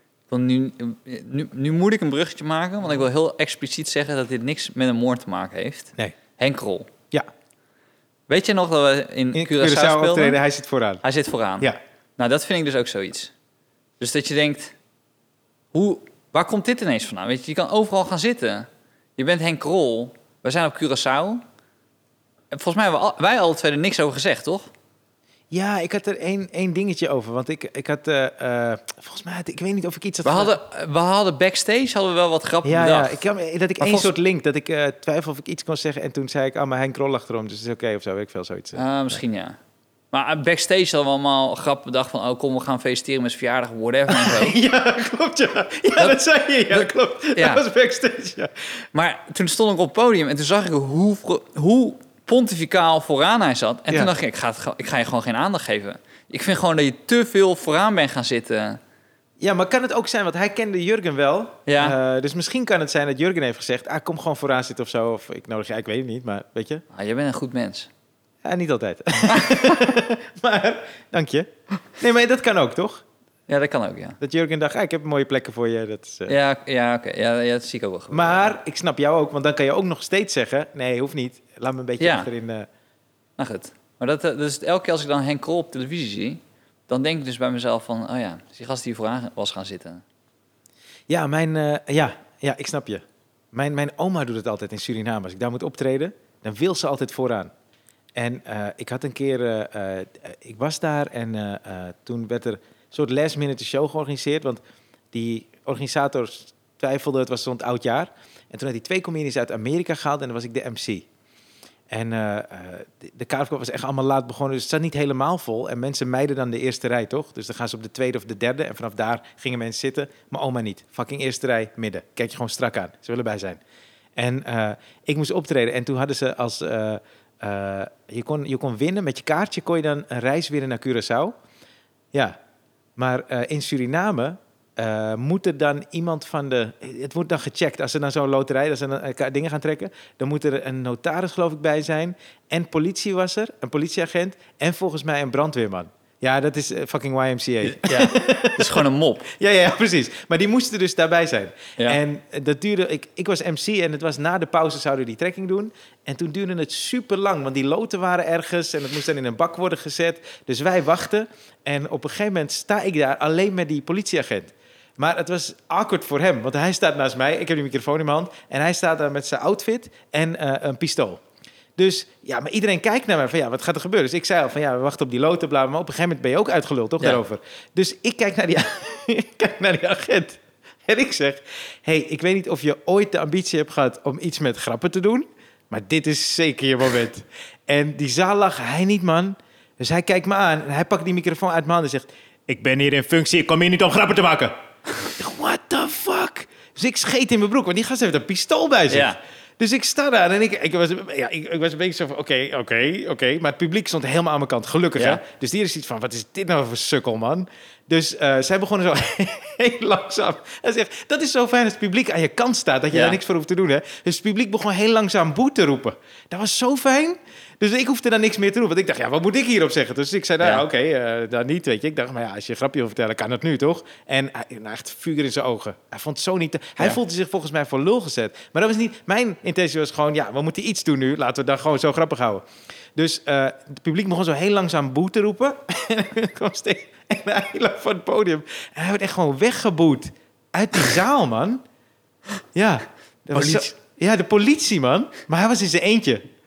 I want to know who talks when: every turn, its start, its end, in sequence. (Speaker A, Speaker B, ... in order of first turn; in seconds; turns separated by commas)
Speaker A: 0.3-6.9, Speaker A: 8.3-10.4, Speaker B: 9.3-11.0, Speaker A: 11.0-13.3, Speaker A: 14.0-14.7, Speaker A: 15.7-21.4, Speaker A: 22.5-24.7, Speaker B: 25.5-30.5, Speaker A: 30.2-33.2, Speaker B: 32.6-38.8, Speaker A: 33.8-34.1, Speaker A: 38.7-39.5, Speaker A: 40.1-44.5, Speaker B: 44.1-48.5, Speaker A: 46.7-47.6, Speaker A: 48.9-58.8, Speaker B: 59.4-66.8, Speaker A: 61.7-62.0, Speaker A: 66.9-67.9, Speaker B: 68.4-73.0, Speaker A: 73.5-74.2, Speaker B: 74.2-76.3, Speaker A: 76.3-78.6, Speaker B: 78.1-82.7, Speaker A: 82.0-82.3, Speaker A: 83.4-90.0, Speaker B: 91.1-97.5, Speaker B: 98.1-104.6, Speaker B: 105.1-111.0, Speaker B: 111.9-123.6, Speaker B: 124.2-131.3, Speaker B: 133.0-171.2, Speaker A: 147.6-149.2, Speaker B: 171.8-194.5, Speaker B: 195.2-241.6, Speaker A: 198.9-199.2, Speaker A: 212.9-213.2, Speaker B: 242.5-246.2, Speaker A: 243.3-243.7